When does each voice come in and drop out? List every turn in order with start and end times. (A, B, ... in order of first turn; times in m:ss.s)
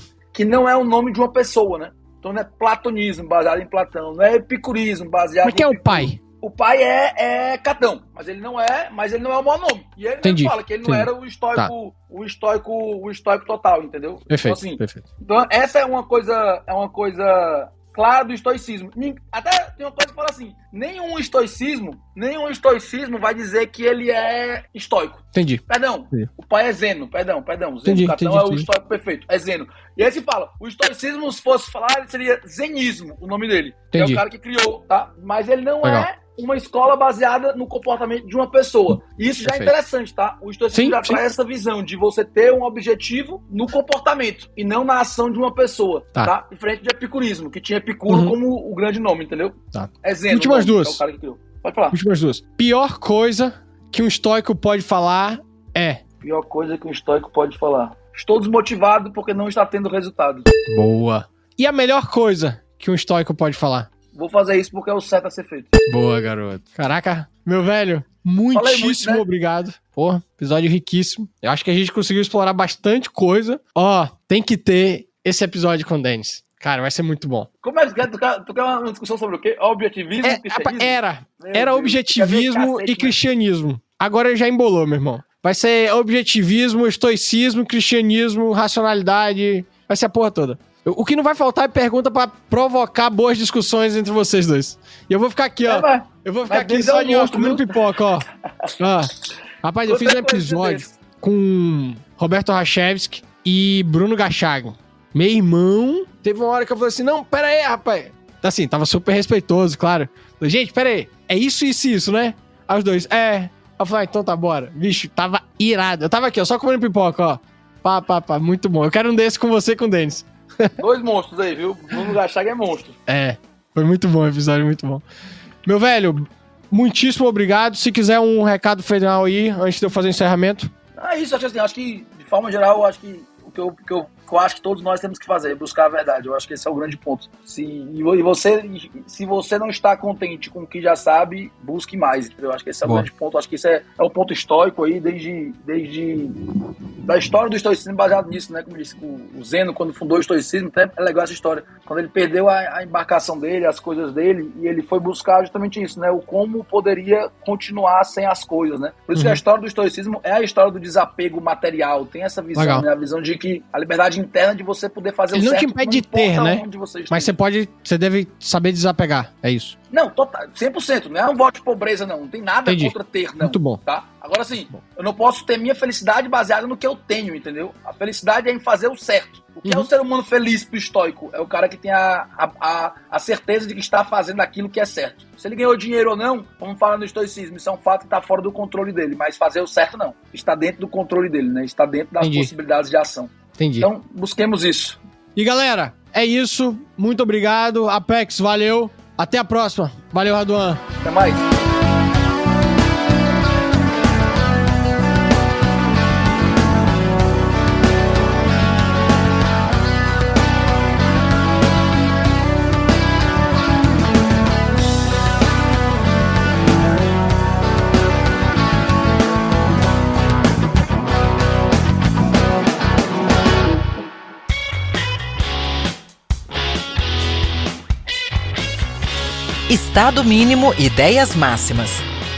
0:00.3-0:52.0 A
0:05.4-0:06.2 B
0:10.2-0:11.7 B
0:14.3-0:15.0 B
0:25.3-0:26.3 B
0:27.8-0:28.7 B
0:33.9-0:34.2 B
0:35.8-0:36.1 B
0:39.4-0:39.7 B
0:40.7-0:41.2 B
0:48.1-0:48.4 B
0:49.7-0:51.0 B
0:51.9-0:56.0 B
0:56.2-1:00.5 A
1:00.7-1:03.9 B
1:04.1-1:05.8 A
1:05.9-1:17.5 B
1:08.5-1:09.2 A
1:17.6-1:23.2 A
1:20.2-1:38.3 B
1:35.7-1:37.9 A
1:38.8-2:00.8 B
1:39.9-1:41.0 A
2:00.8-2:03.0 A
2:03.1-2:05.0 B
2:05.6-2:10.7 B
2:11.0-2:26.4 A
2:27.1-2:47.4 A
2:39.2-2:39.4 B
2:42.6-2:42.9 B
2:45.3-2:49.8 B
2:49.9-3:15.0 A
2:52.7-2:53.8 B
2:59.6-2:59.9 B
3:12.2-3:12.5 B
3:13.6-3:13.9 B
3:15.4-3:20.8 B
3:21.0-3:21.4 A
3:49.7-3:52.0 C